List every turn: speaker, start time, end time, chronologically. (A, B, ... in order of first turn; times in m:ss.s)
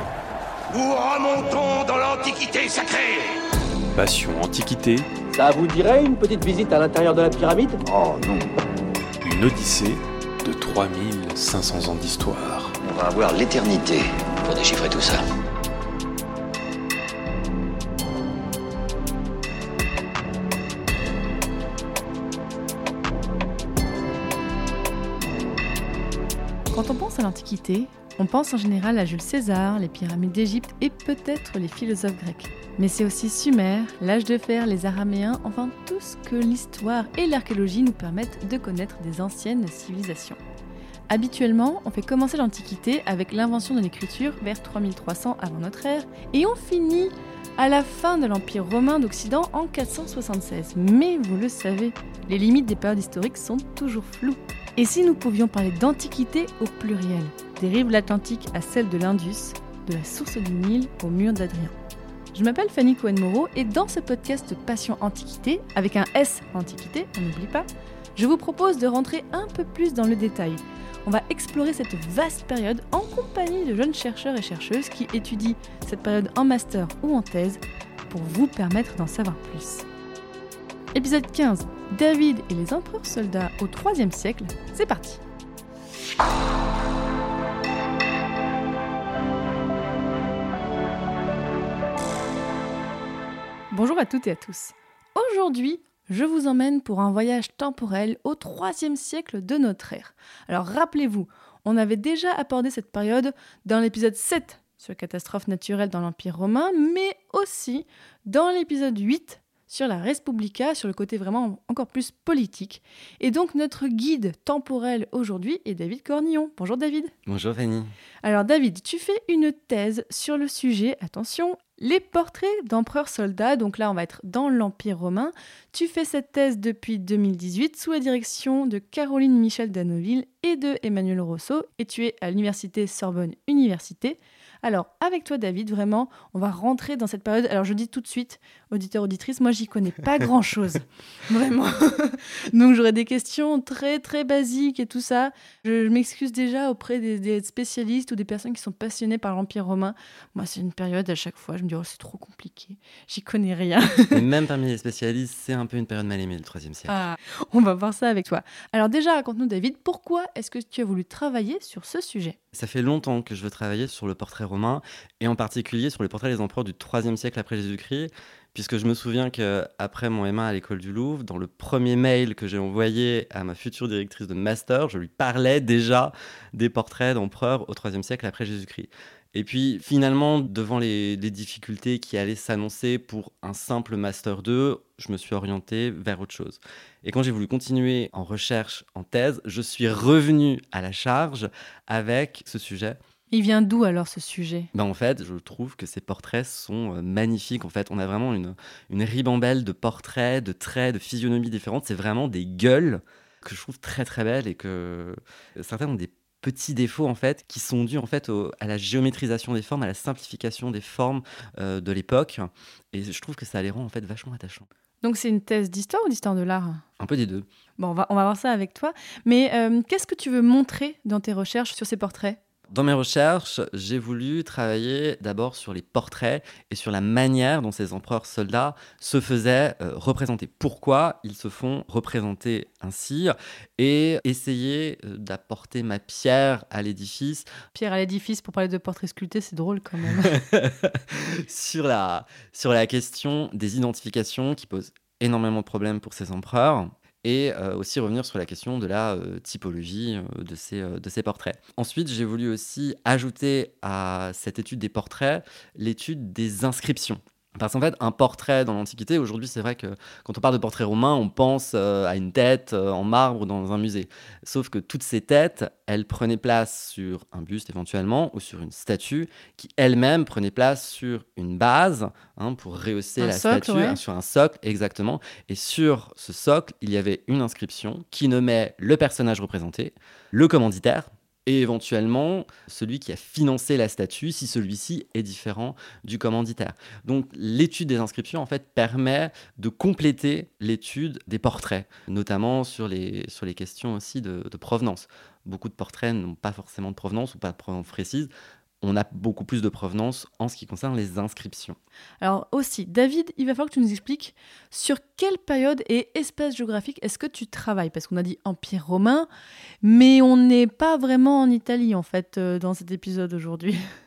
0:00.7-0:03.4 A
0:03.9-0:05.1 B
0:05.3-0:07.8 C
0:07.8-0:08.6 D
0:09.2-0:12.8 B
0:12.8-0:15.2 D
0:26.7-0:40.4 E
0:41.1-1:01.8 E
1:02.3-1:19.8 E
1:20.9-1:25.2 E
1:33.7-1:57.1 E
1:57.3-1:57.9 F
1:58.2-2:34.2 E
2:34.1-2:37.0 F
2:36.9-2:42.4 E
2:42.5-3:13.0 F
3:13.3-3:14.7 E
3:14.7-3:34.7 F
3:35.0-3:36.8 E
3:37.0-3:37.5 F
3:37.8-3:42.4 E
3:42.7-3:57.5 F
3:57.7-4:00.4 E
4:00.1-4:58.3 F
4:33.2-4:34.0 E
4:58.8-5:01.8 F
5:02.2-5:09.3 E
5:09.8-5:13.8 E